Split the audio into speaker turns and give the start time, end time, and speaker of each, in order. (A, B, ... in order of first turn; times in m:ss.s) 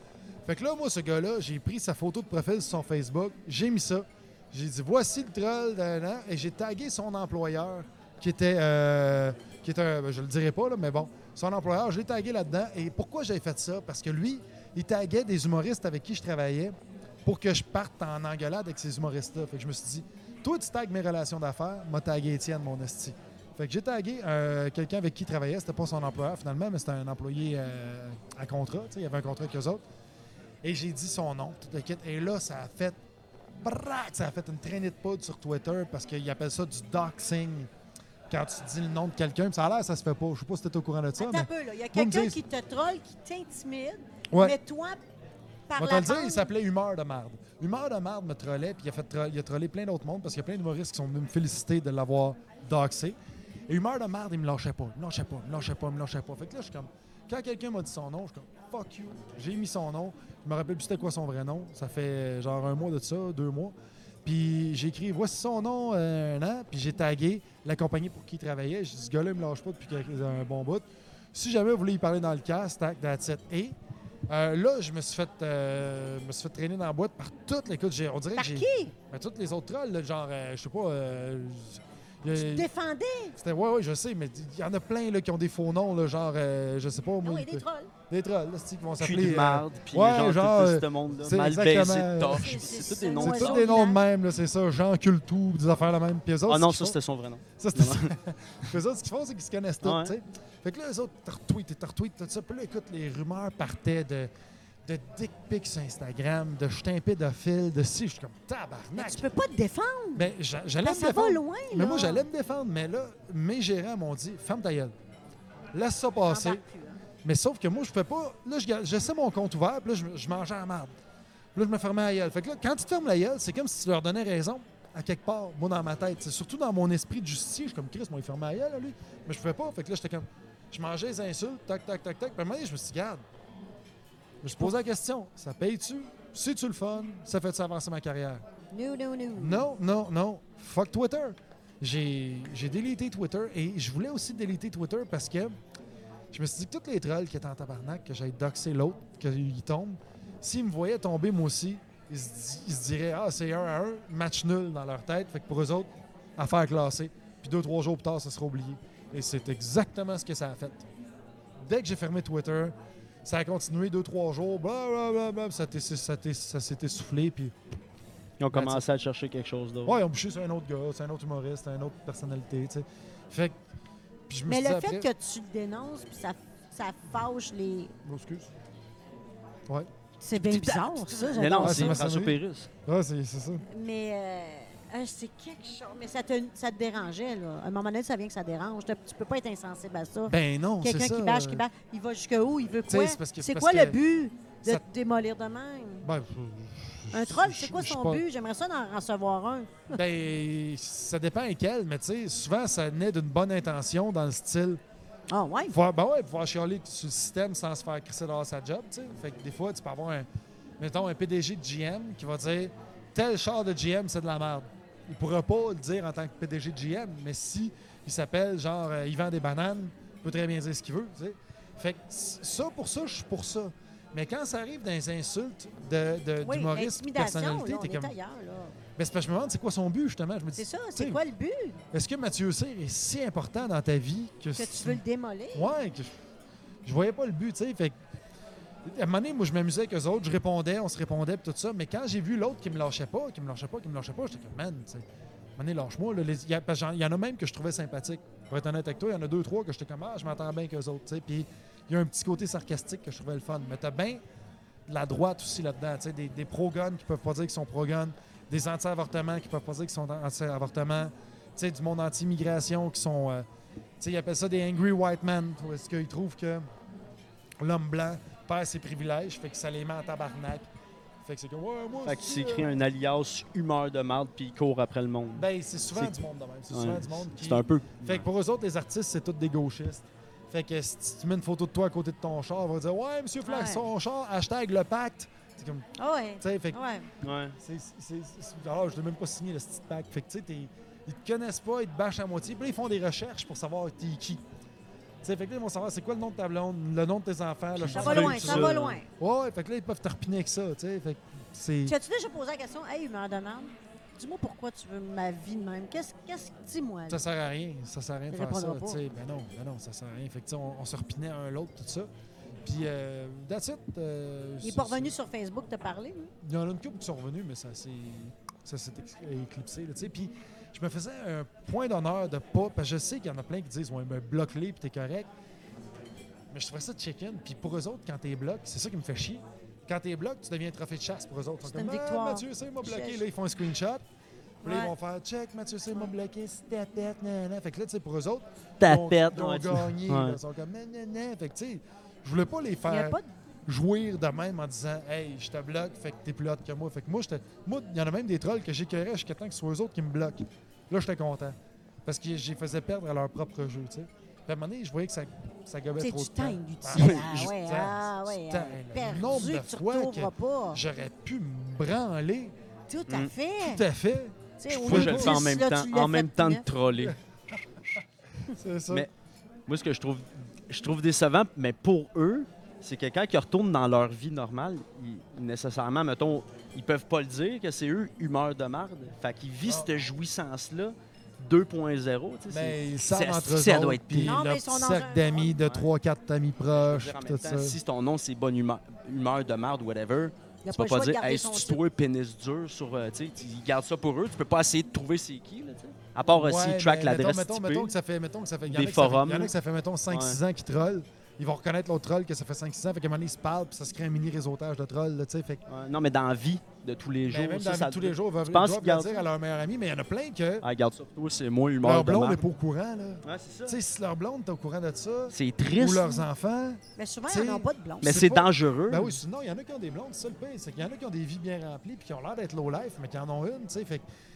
0:00.4-0:29.8 A
0:30.6-0:33.0 A
0:33.6-0:37.7 A
0:38.3-0:42.4 A
0:41.2-0:45.0 B
0:44.3-0:44.6 A
0:45.7-0:46.5 B
0:45.8-0:53.2 A
0:53.7-1:13.8 A
1:14.3-1:22.7 A
1:18.4-1:18.9 B
1:22.3-1:23.4 B
1:23.4-1:32.6 A
1:27.2-1:27.9 B
1:29.0-1:33.7 C
1:32.3-1:34.0 B
1:33.2-1:37.0 A
1:36.5-1:38.1 C
1:37.6-1:44.3 A
1:39.8-1:40.2 C
1:44.8-1:49.3 A
1:49.0-1:50.3 B
1:50.2-1:54.9 A
1:50.8-1:52.2 B
1:55.7-1:56.6 A
1:56.3-1:57.0 B
1:57.2-2:00.9 A
2:01.6-2:13.2 A
2:14.4-2:18.4 A
2:18.7-2:19.7 B
2:19.4-2:25.6 A
2:26.3-2:40.9 A
2:41.6-2:47.6 A
2:48.4-2:50.0 C
2:48.5-2:48.8 A
2:49.8-2:53.6 A
2:54.3-2:55.1 A
2:54.5-2:57.9 B
2:58.0-2:58.5 A
3:00.2-3:02.0 B
3:00.3-3:02.7 C
3:01.6-3:03.6 A
3:03.7-3:16.1 B
3:10.3-3:11.7 A
3:12.9-3:14.0 A
3:16.0-3:18.2 A
3:17.1-3:20.0 B
3:19.9-3:24.8 A
3:25.3-3:25.8 B
3:25.7-3:30.3 A
3:30.8-3:48.1 A
3:46.4-3:48.8 B
3:49.0-3:51.2 A
3:50.6-3:51.8 B
3:51.9-3:55.0 A
3:54.6-3:55.7 B
3:55.5-3:56.1 A
3:56.8-3:58.0 A
3:58.8-4:05.0 A
4:05.6-4:14.2 A
4:14.9-4:23.5 A
4:24.0-4:26.7 A
4:27.6-4:30.7 A
4:31.2-4:32.8 A
4:32.1-4:36.1 C
4:35.4-4:45.9 A
4:36.7-4:38.2 C
4:43.4-4:43.8 B
4:46.0-4:47.1 B
4:46.4-4:46.8 A
4:47.2-4:47.6 C
4:47.6-4:54.4 A
4:55.2-5:02.0 A
4:57.8-4:59.0 C
4:57.9-4:59.1 B
5:01.8-5:07.2 B
5:07.1-5:12.1 A
5:08.3-5:09.0 B
5:12.6-5:15.2 A
5:14.6-5:16.3 B
5:16.4-5:25.3 A
5:26.5-5:34.0 A
5:31.7-5:33.2 B
5:34.6-6:02.6 A
5:34.6-5:34.9 B
5:38.8-5:40.4 C
5:42.9-5:43.3 B
5:56.0-6:00.8 B
5:57.0-5:57.3 C
6:02.9-6:03.8 B
6:03.6-6:05.4 A
6:04.6-6:06.6 B
6:04.7-6:07.2 C
6:08.5-6:09.1 A
6:09.7-6:24.4 C
6:22.5-6:27.8 A
6:24.2-6:25.5 B
6:26.7-6:37.9 C
6:30.6-6:31.8 B
6:36.3-6:45.6 A
6:38.7-6:39.5 C
6:40.1-6:40.4 C
6:45.7-6:49.2 C
6:47.3-6:50.7 A
6:50.6-6:52.4 C
6:51.8-7:04.1 A
6:53.2-6:53.8 C
6:55.3-6:56.3 C
6:57.0-6:58.2 B
6:58.0-6:59.2 C